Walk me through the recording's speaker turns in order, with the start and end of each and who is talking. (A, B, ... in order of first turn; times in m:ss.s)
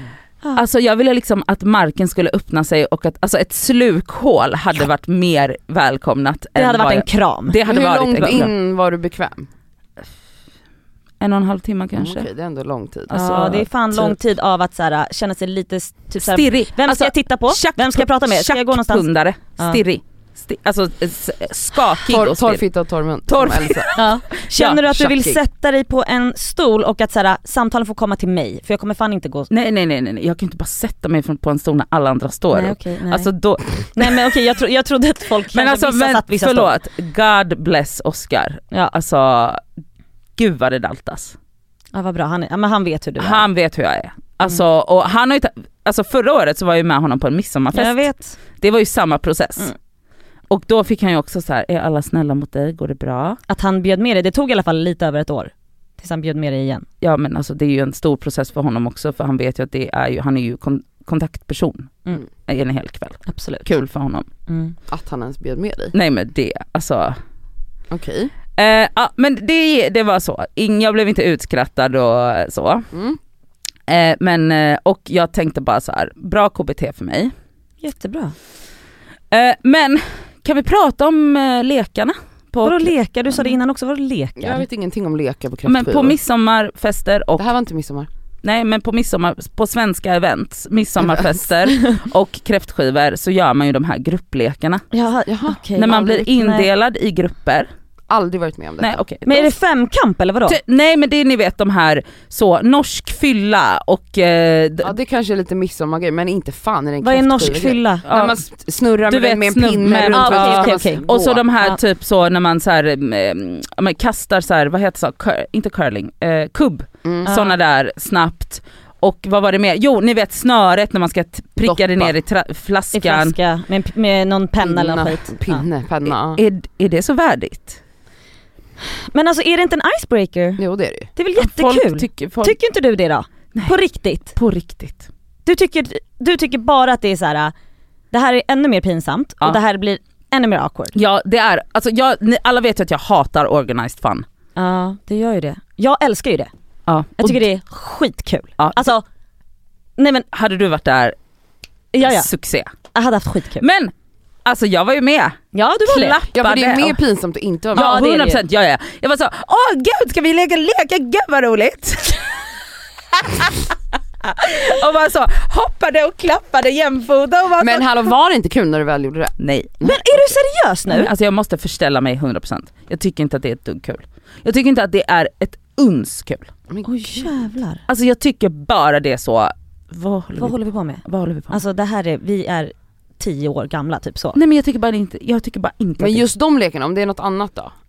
0:00.6-0:08.5 A
0:06.6-0:07.6 B
0:07.7-0:09.5 C
0:11.2-0:12.3 A
0:12.0-0:13.1 C
0:13.1-0:14.2 A
0:13.1-0:19.1 B
0:16.2-0:22.6 A
0:22.1-0:24.0 C
0:23.3-0:24.0 A
0:24.0-0:29.5 B
0:24.6-0:25.0 A
0:24.6-0:25.4 C
0:29.5-0:34.3 A
0:32.5-0:33.3 B
0:34.0-0:36.7 B
0:35.5-0:39.6 A
0:40.4-0:41.4 A
0:41.9-0:43.4 B
0:43.2-0:48.0 A
0:47.7-0:48.4 B
0:48.6-0:49.7 A
0:50.5-0:53.4 A
0:53.5-0:56.9 B
0:57.0-1:04.3 A
1:03.3-1:03.7 B
1:04.5-1:04.8 B
1:04.9-1:05.9 C
1:05.9-1:07.2 A
1:07.9-1:08.3 C
1:08.6-1:12.8 A
1:12.9-1:13.2 C
1:13.9-1:17.3 A
1:17.8-1:18.4 B
1:19.3-1:23.5 A
1:22.6-1:24.6 B
1:24.4-1:26.2 C
1:25.7-1:27.5 A
1:27.4-1:28.1 C
1:28.4-1:34.8 A
1:31.0-1:31.3 C
1:34.9-1:36.7 B
1:35.3-1:36.0 C
1:35.8-1:37.7 A
1:38.1-1:39.0 C
1:38.8-1:39.5 A
1:39.3-1:40.6 B
1:40.5-1:44.9 A
1:44.8-1:51.4 C
1:47.0-1:48.0 B
1:48.1-1:48.4 A
1:49.1-2:03.4 A
1:50.1-1:51.0 B
1:57.3-1:57.6 B
2:01.6-2:02.1 C
2:02.9-2:05.7 B
2:04.6-2:06.4 C
2:06.4-2:07.8 A
2:09.1-2:10.6 B
2:10.6-2:11.1 C
2:11.2-2:14.3 B
2:11.4-2:12.6 A
2:14.4-2:15.1 A
2:15.5-2:17.5 B
2:18.1-2:20.9 B
2:20.9-2:24.2 A
2:24.6-2:26.5 B
2:26.9-2:27.4 A
2:27.2-2:29.0 B
2:30.0-2:30.3 B
2:30.3-2:31.2 A
2:31.9-2:32.3 B
2:32.0-2:32.7 A
2:32.9-2:33.6 B
2:33.6-2:33.9 A
2:34.4-2:37.0 A
2:35.5-2:36.2 B
2:36.3-2:38.0 C
2:37.8-2:38.4 B
2:37.8-2:42.3 A
2:43.1-2:47.9 A
2:47.6-2:50.1 C
2:49.4-2:49.8 A
2:49.8-2:51.1 B
2:50.9-2:56.5 A
2:56.7-2:57.3 C
2:56.8-2:57.8 B
2:57.9-3:01.6 A
3:00.4-3:04.4 B
3:04.4-3:06.3 A
3:06.0-3:07.7 C